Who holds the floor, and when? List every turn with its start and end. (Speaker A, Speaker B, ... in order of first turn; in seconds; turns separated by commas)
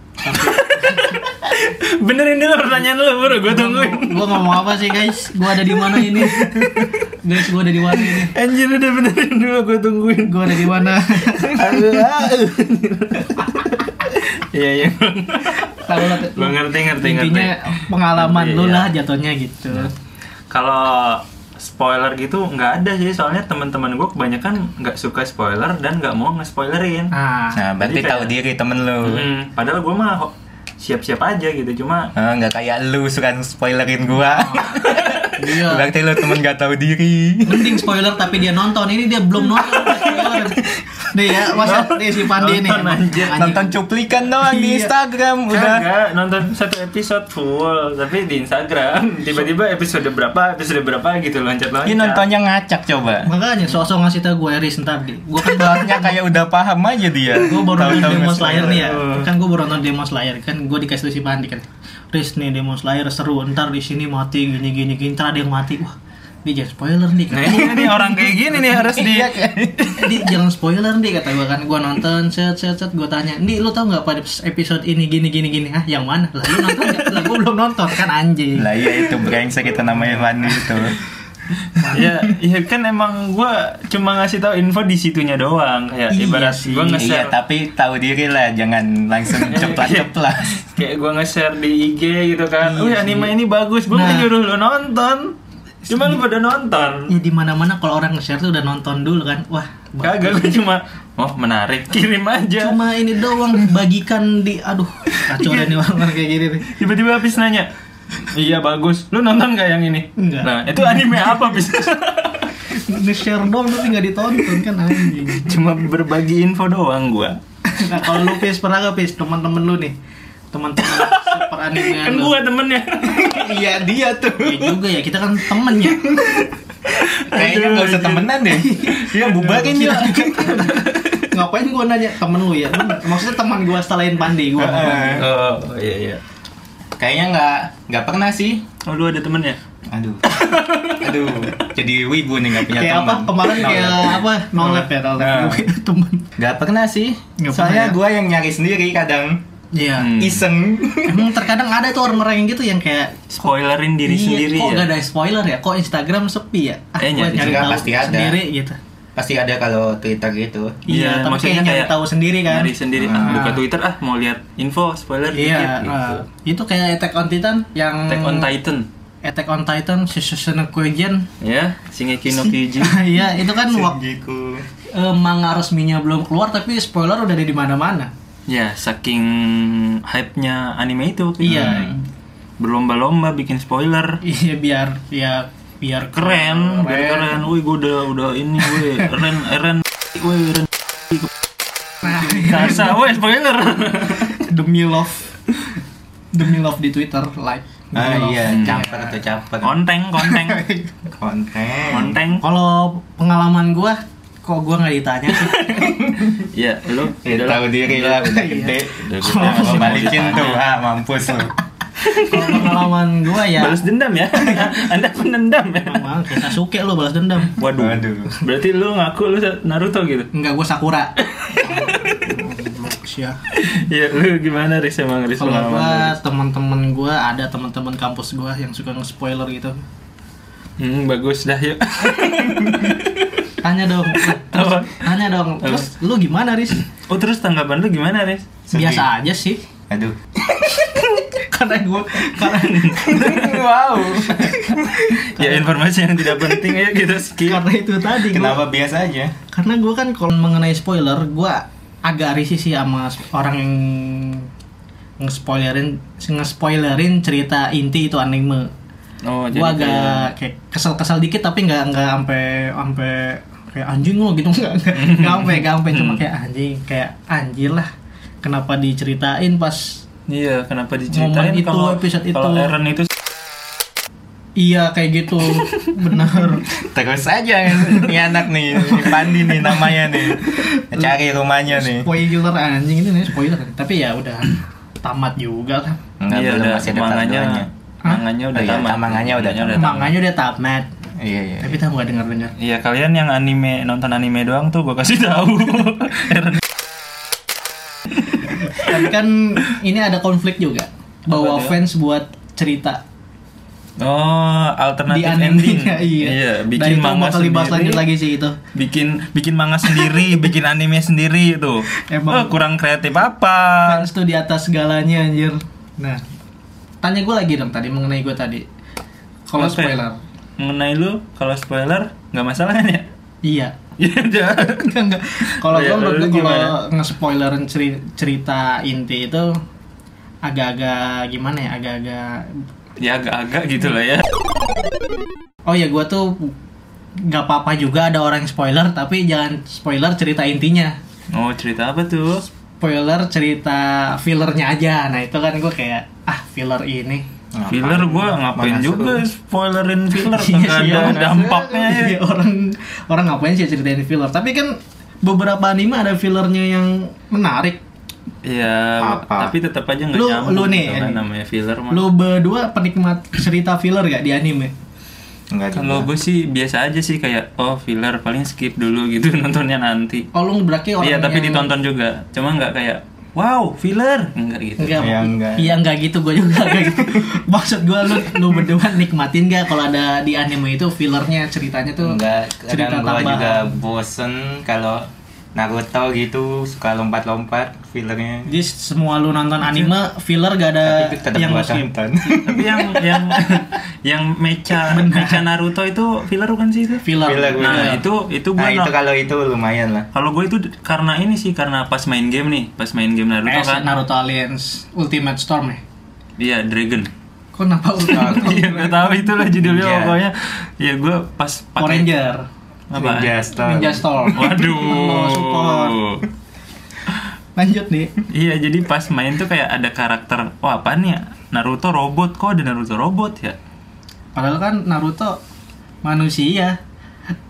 Speaker A: 0.2-1.2, Speaker B: 0.3-7.0, Speaker A: 3.5-8.3, Speaker B: 7.9-18.9, Speaker A: 10.2-12.1, Speaker A: 15.4-19.9, Speaker B: 20.5-27.1, Speaker A: 27.1-27.6, Speaker C: 27.5-29.3, Speaker B: 27.8-28.3, Speaker B: 29.0-32.1, Speaker C: 32.2-37.9, Speaker A: 34.2-35.9, Speaker B: 34.8-35.4, Speaker A: 37.5-43.7, Speaker B: 39.5-40.5, Speaker C: 40.6-41.0, Speaker B: 41.6-43.5, Speaker C: 43.3-45.9, Speaker A: 44.4-44.9, Speaker B: 45.5-52.2, Speaker C: 51.9-53.3, Speaker A: 53.2-56.2, Speaker C: 55.4-59.0, Speaker A: 57.4-68.6, Speaker B: 57.8-59.3, Speaker B: 67.3-69.9, Speaker C: 68.6-70.2, Speaker A: 69.8-79.0, Speaker C: 78.5-81.0, Speaker B: 81.9-87.3, Speaker A: 86.1-87.0, Speaker C: 87.0-90.6, Speaker B: 89.4-95.4, Speaker A: 92.6-93.3, Speaker A: 93.9-94.3, Speaker B: 95.9-97.1, Speaker A: 95.9-96.2, Speaker A: 97.1-100.5, Speaker B: 100.0-102.8, Speaker A: 102.6-106.7, Speaker B: 105.1-106.0, Speaker B: 106.7-107.7, Speaker B: 108.2-112.6, Speaker A: 110.2-110.5, Speaker A: 112.7-115.5, Speaker B: 114.3-117.4, Speaker A: 117.7-120.0, Speaker B: 118.0-118.4, Speaker A: 120.5-122.4, Speaker B: 120.8-124.8, Speaker A: 123.0-126.2, Speaker B: 126.1-128.4, Speaker C: 127.2-130.7, Speaker A: 128.5-135.2, Speaker B: 130.5-131.3, Speaker C: 134.6-135.3, Speaker B: 135.2-136.2, Speaker C: 137.0-138.6, Speaker B: 138.8-139.6, Speaker C: 139.9-140.3, Speaker B: 140.3-141.5, Speaker C: 141.0-145.6, Speaker A: 142.7-146.3, Speaker C: 146.4-149.4, Speaker A: 147.4-148.0, Speaker A: 149.7-150.1, Speaker B: 150.0-150.5, Speaker C: 150.2-151.4, Speaker A: 151.1-153.5, Speaker B: 153.3-154.9, Speaker A: 154.0-158.8, Speaker B: 157.0-157.8, Speaker C: 157.3-158.4, Speaker C: 159.2-160.8, Speaker A: 160.9-163.6, Speaker B: 160.9-166.2, Speaker C: 163.0-163.5, Speaker A: 165.3-168.5, Speaker B: 168.1-168.9, Speaker A: 169.2-171.3, Speaker B: 171.4-173.1, Speaker A: 172.3-174.0, Speaker C: 173.4-174.7, Speaker A: 174.9-178.1, Speaker B: 178.5-181.9, Speaker C: 181.4-182.0, Speaker A: 181.4-182.0, Speaker B: 182.6-184.2, Speaker A: 184.2-187.4, Speaker B: 186.1-191.3, Speaker A: 188.6-189.0, Speaker B: 192.0-194.4, Speaker A: 192.0-192.9, Speaker A: 194.2-195.6, Speaker A: 196.3-199.2, Speaker C: 197.9-199.8, Speaker B: 198.5-198.9, Speaker B: 199.6-200.7, Speaker A: 200.2-200.9, Speaker C: 201.2-202.2, Speaker B: 201.9-202.4, Speaker A: 202.4-206.0, Speaker B: 205.4-208.4, Speaker C: 205.9-206.4, Speaker C: 207.2-211.6, Speaker A: 208.2-210.4, Speaker B: 209.0-210.6, Speaker B: 212.1-212.9, Speaker A: 212.1-213.8, Speaker B: 213.4-216.1, Speaker A: 214.4-214.8, Speaker A: 215.8-217.6, Speaker B: 217.5-220.3, Speaker C: 217.8-218.3, Speaker A: 220.3-223.4, Speaker B: 221.2-222.2, Speaker B: 223.5-226.2, Speaker A: 225.4-229.8, Speaker B: 230.8-233.5, Speaker A: 233.6-236.8, Speaker B: 234.1-235.1, Speaker B: 235.6-235.9, Speaker B: 236.9-238.5, Speaker C: 238.7-239.1, Speaker A: 238.7-239.6, Speaker C: 239.9-240.2, Speaker A: 240.6-243.5, Speaker B: 242.4-243.4, Speaker C: 243.0-245.0, Speaker A: 244.3-245.7, Speaker B: 245.2-247.6, Speaker A: 246.3-246.8, Speaker A: 247.4-248.6, Speaker C: 248.2-249.3, Speaker A: 249.5-254.5, Speaker A: 255.2-258.7, Speaker B: 259.2-260.3, Speaker A: 259.5-267.9, Speaker B: 264.9-266.2, Speaker A: 268.4-270.1, Speaker B: 270.3-273.1, Speaker A: 271.1-272.8, Speaker A: 274.6-276.7, Speaker C: 276.7-282.2, Speaker A: 277.8-278.2, Speaker A: 278.8-281.1, Speaker A: 281.7-286.0, Speaker C: 286.2-287.7, Speaker B: 286.3-290.1, Speaker C: 288.5-289.9, Speaker A: 289.8-290.9, Speaker C: 291.2-291.8, Speaker A: 291.6-292.5, Speaker B: 292.6-296.6, Speaker B: 298.4-299.0, Speaker A: 298.4-303.0, Speaker B: 301.3-301.8, Speaker B: 304.0-308.1, Speaker A: 305.1-308.6, Speaker B: 308.7-314.1, Speaker A: 309.8-310.3, Speaker A: 311.9-312.6, Speaker A: 313.8-316.2, Speaker A: 317.0-318.6, Speaker A: 319.5-320.2, Speaker B: 319.6-320.0, Speaker B: 320.6-323.1, Speaker A: 323.4-323.8, Speaker B: 324.0-324.9, Speaker A: 324.5-329.5, Speaker B: 325.5-326.8, Speaker A: 330.4-332.6, Speaker B: 333.0-334.2, Speaker A: 335.7-336.5, Speaker A: 337.2-340.9, Speaker B: 341.3-342.4, Speaker A: 342.8-347.2, Speaker C: 347.5-349.3, Speaker B: 347.7-352.2, Speaker A: 350.1-357.8, Speaker C: 350.8-351.3, Speaker B: 358.4-362.1, Speaker C: 359.0-359.5, Speaker A: 360.1-361.2, Speaker A: 361.9-364.7, Speaker C: 365.5-366.1, Speaker B: 365.7-370.3, Speaker A: 370.3-371.7, Speaker B: 371.0-375.0, Speaker A: 374.8-383.8, Speaker C: 375.0-375.8, Speaker C: 382.0-388.6, Speaker A: 388.5-391.9, Speaker C: 390.8-393.6, Speaker B: 392.4-397.1, Speaker A: 394.8-395.4, Speaker A: 397.0-398.0, Speaker C: 397.2-400.1, Speaker B: 397.6-398.9, Speaker B: 400.1-403.9, Speaker A: 403.5-405.8, Speaker B: 406.4-407.1, Speaker A: 407.6-409.4, Speaker B: 408.1-412.1, Speaker C: 408.1-408.7, Speaker C: 409.6-410.2, Speaker A: 411.8-412.4, Speaker B: 412.9-413.4, Speaker C: 412.9-414.6, Speaker A: 413.6-416.0, Speaker B: 414.3-416.3, Speaker A: 417.6-418.1, Speaker B: 418.3-423.6, Speaker A: 424.4-425.4, Speaker A: 426.0-426.8